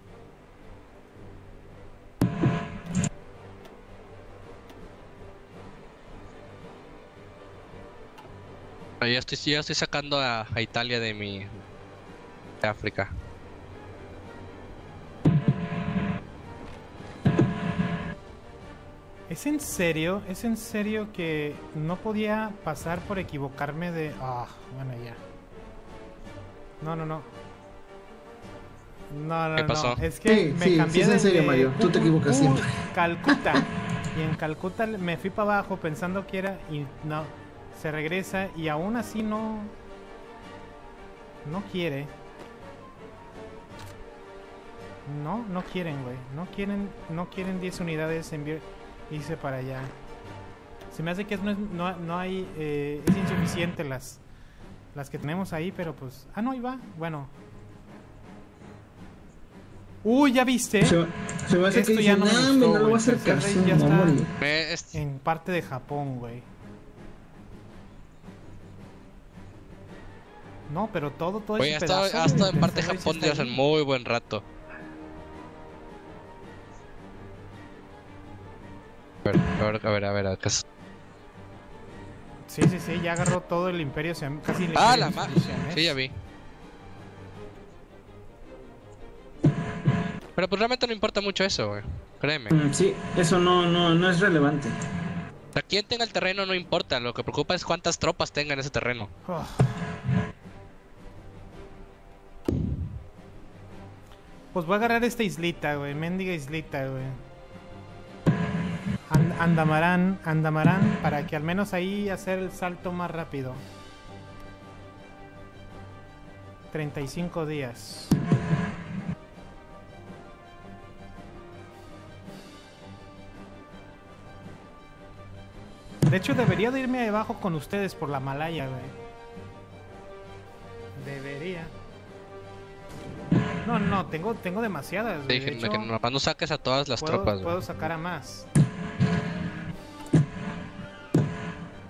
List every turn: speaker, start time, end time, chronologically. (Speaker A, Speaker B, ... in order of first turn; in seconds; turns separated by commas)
Speaker A: 9.0-11.6, Speaker A: 12.6-13.1, Speaker B: 19.3-25.2, Speaker B: 26.8-27.3, Speaker B: 29.1-39.7, Speaker A: 29.6-30.0, Speaker C: 30.3-32.7, Speaker B: 41.4-42.1, Speaker B: 45.1-50.0, Speaker B: 50.9-54.2, Speaker B: 54.9-57.3, Speaker B: 60.0-61.0, Speaker C: 60.8-64.3, Speaker B: 61.7-64.2, Speaker A: 64.4-65.0, Speaker B: 64.9-66.5, Speaker B: 70.7-73.6, Speaker A: 71.6-74.5, Speaker A: 79.2-80.6, Speaker B: 82.5-86.0, Speaker A: 84.8-86.1, Speaker A: 90.4-92.5, Speaker C: 92.5-94.8, Speaker A: 95.5-99.1, Speaker B: 99.3-99.8, Speaker B: 104.5-107.2, Speaker B: 109.1-113.6, Speaker B: 116.7-118.2, Speaker B: 126.1-128.9, Speaker B: 131.0-131.7, Speaker B: 133.6-135.9, Speaker A: 135.3-137.5, Speaker B: 137.0-138.5